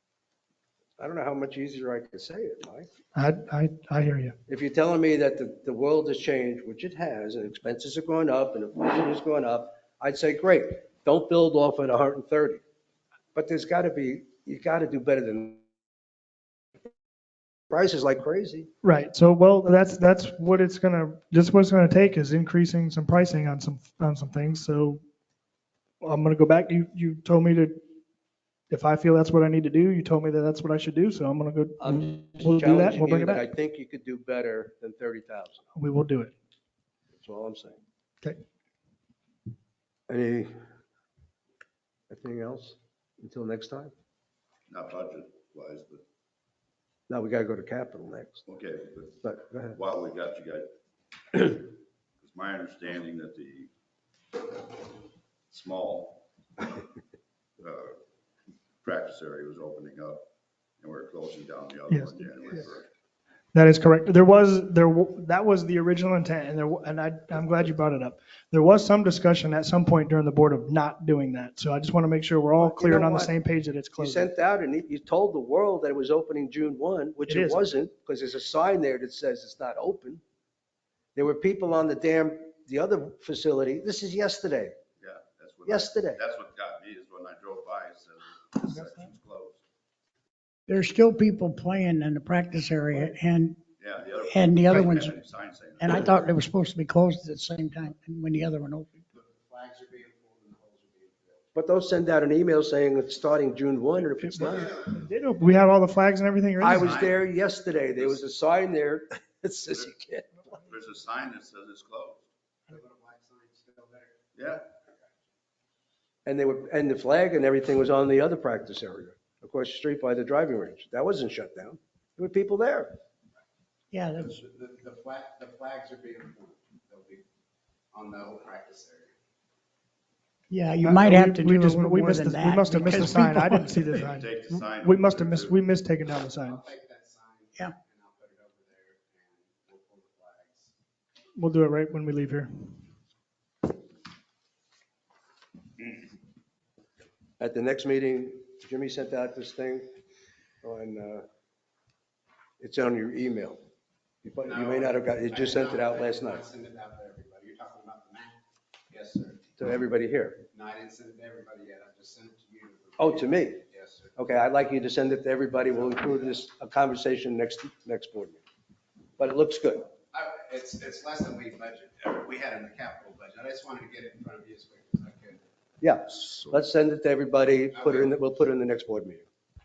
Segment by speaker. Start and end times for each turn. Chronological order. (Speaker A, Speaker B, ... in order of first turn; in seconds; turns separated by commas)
Speaker A: 1.0-2.9, Speaker B: 3.1-4.3, Speaker A: 4.5-12.6, Speaker A: 13.3-15.6, Speaker A: 17.7-18.7, Speaker B: 18.8-25.0, Speaker B: 26.0-27.8, Speaker B: 28.7-33.4, Speaker A: 31.8-35.7, Speaker B: 35.8-36.3, Speaker A: 37.1-37.8, Speaker A: 40.1-40.5, Speaker A: 42.1-43.9, Speaker C: 44.7-46.0, Speaker A: 47.1-48.4, Speaker C: 48.5-50.7, Speaker A: 49.2-49.8, Speaker C: 51.3-51.7, Speaker C: 52.2-53.7, Speaker C: 55.5-56.8, Speaker C: 57.6-58.0, Speaker C: 58.8-60.3, Speaker C: 60.8-62.9, Speaker B: 61.9-62.3, Speaker B: 63.5-74.3, Speaker A: 72.6-73.3, Speaker A: 74.0-80.2, Speaker B: 77.3-77.7, Speaker A: 81.2-84.8, Speaker C: 85.0-89.6, Speaker A: 85.7-86.2, Speaker D: 90.7-93.6, Speaker C: 93.8-96.2, Speaker D: 94.2-95.2, Speaker D: 95.8-99.1, Speaker E: 99.2-101.4, Speaker A: 101.5-104.8, Speaker B: 104.2-107.0, Speaker A: 106.6-110.3, Speaker C: 106.7-107.2, Speaker C: 107.9-108.2, Speaker C: 110.5-112.3, Speaker E: 112.7-114.1, Speaker C: 114.3-114.7, Speaker A: 116.2-122.9, Speaker D: 123.9-124.3, Speaker E: 124.2-127.2, Speaker E: 127.9-129.1, Speaker D: 130.5-133.9, Speaker B: 130.8-136.6, Speaker C: 133.8-135.7, Speaker E: 136.4-140.7, Speaker B: 141.4-142.8, Speaker A: 147.4-149.9, Speaker A: 150.6-151.3, Speaker A: 152.6-153.6, Speaker A: 154.3-156.4, Speaker E: 154.4-158.3, Speaker E: 158.9-159.4, Speaker A: 159.6-160.4, Speaker E: 160.5-164.2, Speaker A: 163.0-163.6, Speaker A: 164.2-168.4, Speaker A: 169.2-169.9, Speaker E: 170.1-175.4, Speaker A: 175.8-179.2, Speaker C: 176.1-176.6, Speaker E: 177.7-178.1